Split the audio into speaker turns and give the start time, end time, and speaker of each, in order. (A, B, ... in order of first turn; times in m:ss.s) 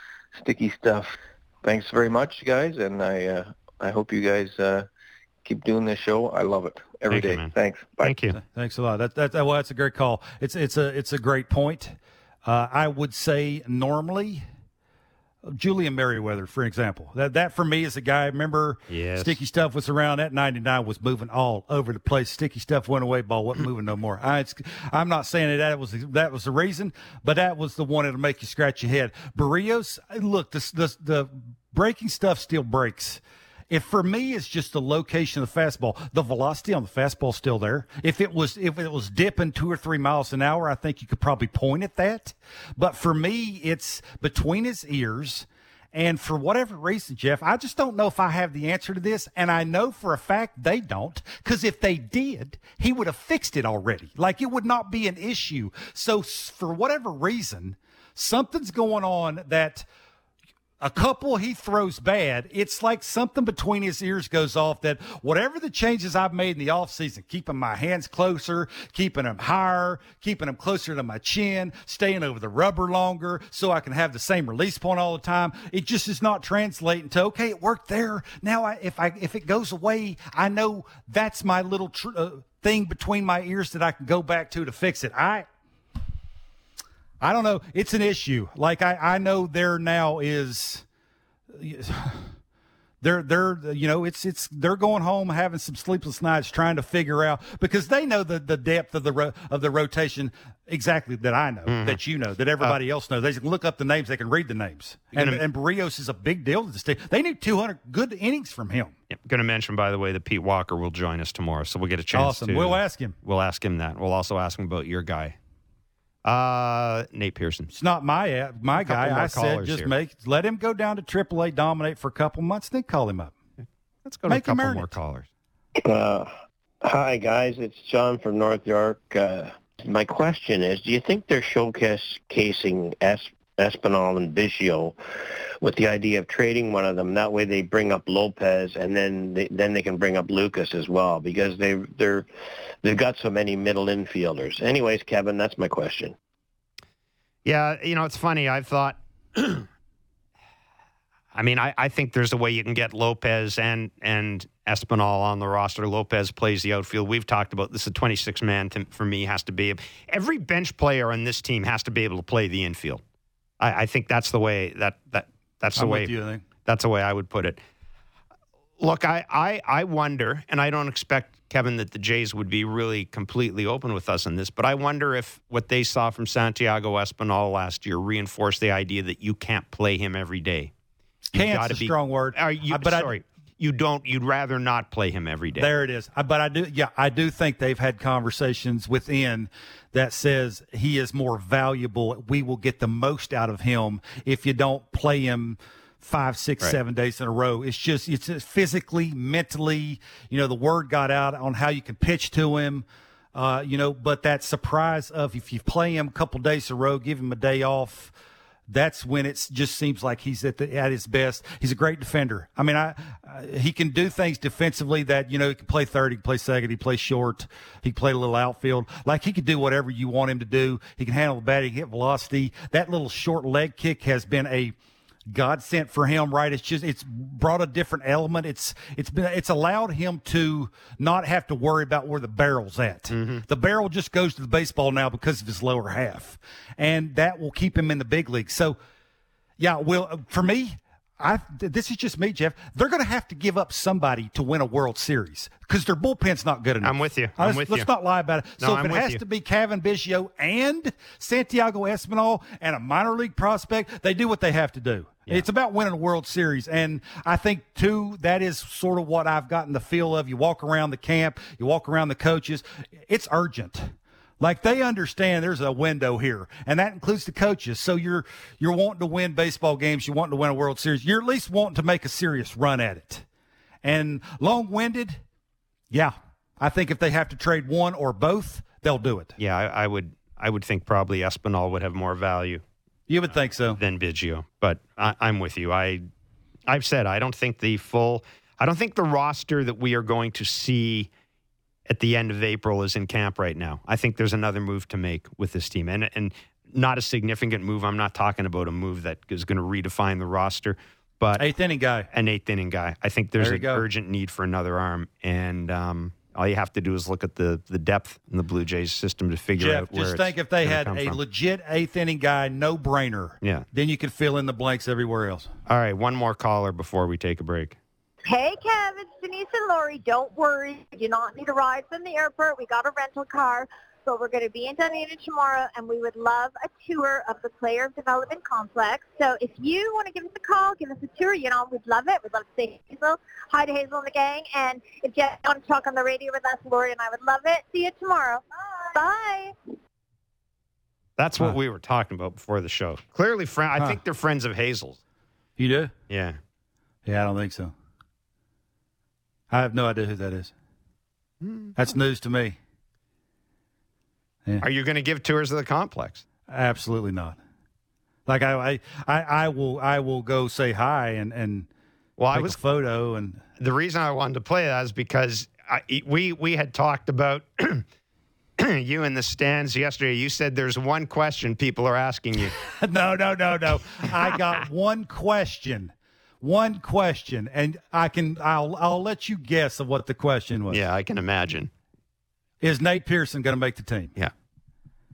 0:00.3-0:04.9 A
0:05.4-0:08.1 A
0:07.1-0:08.4 B
0:08.3-0:14.4 C
0:15.4-0:59.9 C
0:18.9-0:19.4 B
1:00.8-1:25.5 C
1:27.2-1:30.8 C
1:31.5-1:32.3 C
1:33.0-1:48.9 C
1:41.7-1:42.0 B
1:45.1-1:45.4 B
1:49.1-1:55.4 B
1:52.1-1:53.2 C
1:56.2-1:57.7 B
1:57.7-2:03.3 C
1:58.8-1:59.9 B
2:04.0-2:05.3 B
2:04.3-2:05.0 C
2:05.8-2:15.0 D
2:15.6-2:22.3 D
2:22.8-2:26.2 D
2:27.4-2:29.7 B
2:31.3-2:43.0 B
2:43.6-2:46.1 B
2:45.8-2:46.4 C
2:46.6-2:47.6 B
2:48.8-3:00.7 B
3:01.3-3:03.1 C
3:01.3-3:05.7 B
3:05.6-3:28.1 C
3:28.7-3:44.8 C
3:45.3-3:58.8 C
3:53.1-3:53.4 B
3:59.6-4:33.2 C
4:06.8-4:07.9 B
4:08.6-4:09.2 B
4:33.8-4:35.2 C
4:35.9-4:39.4 C
4:39.4-4:42.6 B
4:43.1-4:43.8 C
4:43.8-4:46.0 B
4:46.7-4:51.1 B
4:51.9-5:01.4 B
5:01.4-5:02.1 C
5:02.1-5:11.2 B
5:03.4-5:03.9 C
5:09.6-5:15.5 C
5:15.7-5:17.8 B
5:18.2-5:39.5 E
5:41.2-5:45.0 B
5:45.6-5:45.9 C
5:46.1-5:46.4 B
5:47.0-5:47.7 C
5:49.5-5:50.5 C
5:51.4-5:51.8 B
5:51.8-5:52.6 C
5:54.6-5:56.2 B
5:56.5-5:57.4 C
5:58.3-6:01.7 C
6:02.2-6:02.6 B
6:02.3-6:03.4 C
6:03.6-6:07.8 B
6:08.6-6:12.6 B
6:12.6-6:20.8 C
6:20.7-6:21.7 B
6:22.6-6:24.1 C